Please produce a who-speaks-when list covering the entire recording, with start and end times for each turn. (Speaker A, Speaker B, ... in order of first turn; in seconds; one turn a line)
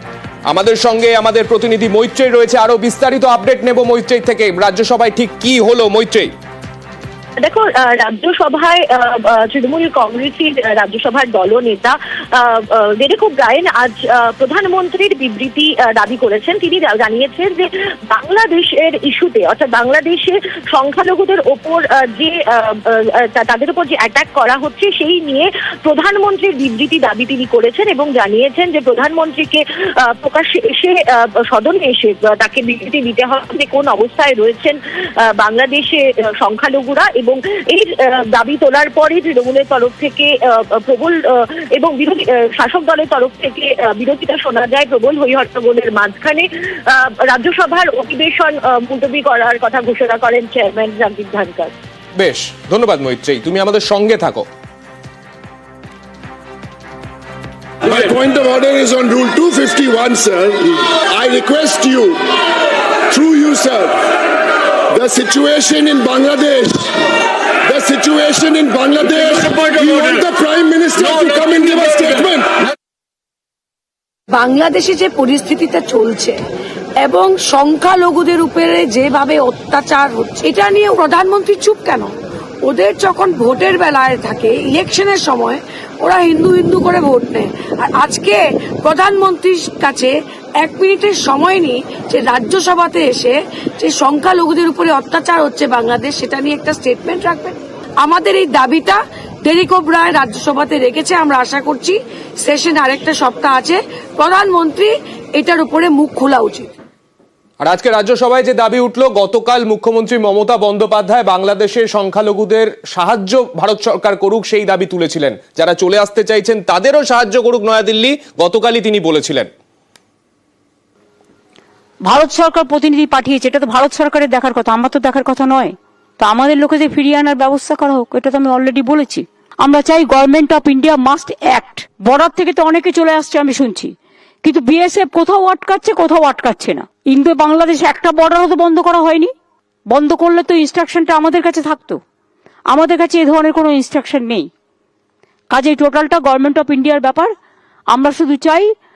Speaker A: 0.5-6.3
Speaker B: 7.4-34.8
Speaker B: 35.3-51.7
Speaker A: 52.2-54.5
Speaker C: 57.8-62.3
Speaker C: 63.1-64.1
Speaker C: 64.9-67.0
Speaker C: 67.6-72.6
Speaker D: 74.3-76.4
Speaker D: 77.0-82.1
Speaker D: 82.7-106.7
Speaker A: 107.6-119.5
Speaker E: 122.0-139.3
Speaker E: 139.9-142.0
Speaker E: 142.7-144.5
Speaker E: 145.5-147.3
Speaker E: 147.9-148.7